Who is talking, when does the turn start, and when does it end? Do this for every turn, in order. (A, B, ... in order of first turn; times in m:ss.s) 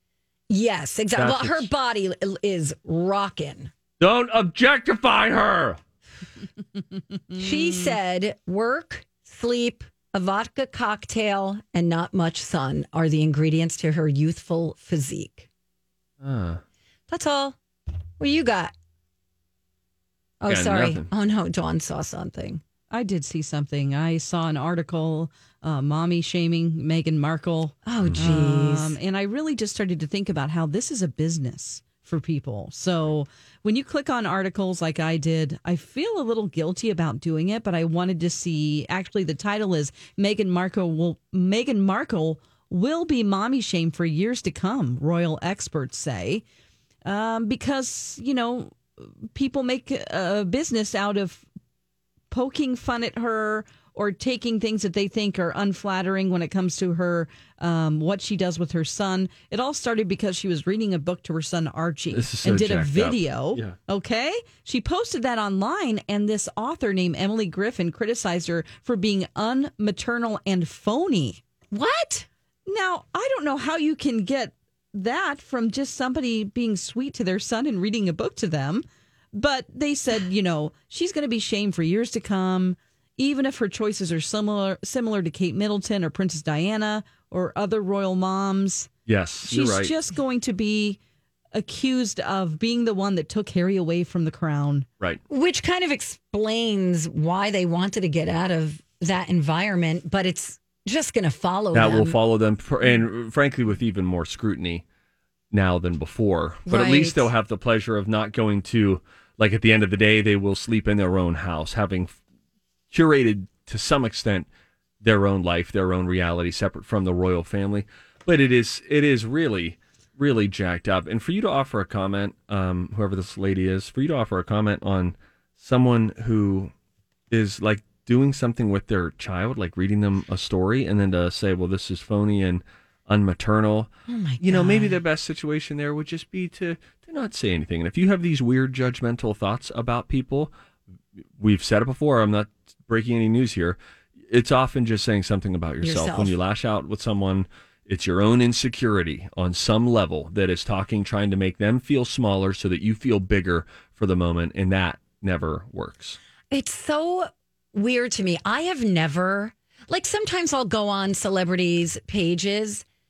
0:00.5-0:03.7 A
0:01.2-0:01.7 B
0:04.0-0:05.8 B
0:07.4-0:15.5 A
0:16.2-0:16.6 B
0:17.1-0:17.6 A
0:18.2-0:18.7 A
0:20.4-0:22.6 A
0:20.4-0:21.1 B
0:22.9-0:46.4 C
0:27.8-0:29.0 A
0:47.0-0:51.4 C
0:52.3-1:11.4 C
1:02.1-1:03.8 B
1:11.7-1:12.3 A
1:12.6-1:28.9 C
1:29.1-1:29.9 B
1:29.5-1:31.0 C
1:31.5-1:34.9 C
1:35.3-1:42.2 A
1:41.7-1:44.8 B
1:45.5-1:52.2 B
1:46.6-1:47.3 A
1:52.9-1:54.5 B
1:55.0-2:06.7 B
2:07.3-2:20.5 B
2:14.1-2:15.0 A
2:21.4-2:36.2 B
2:25.8-2:26.4 A
2:36.5-2:42.8 A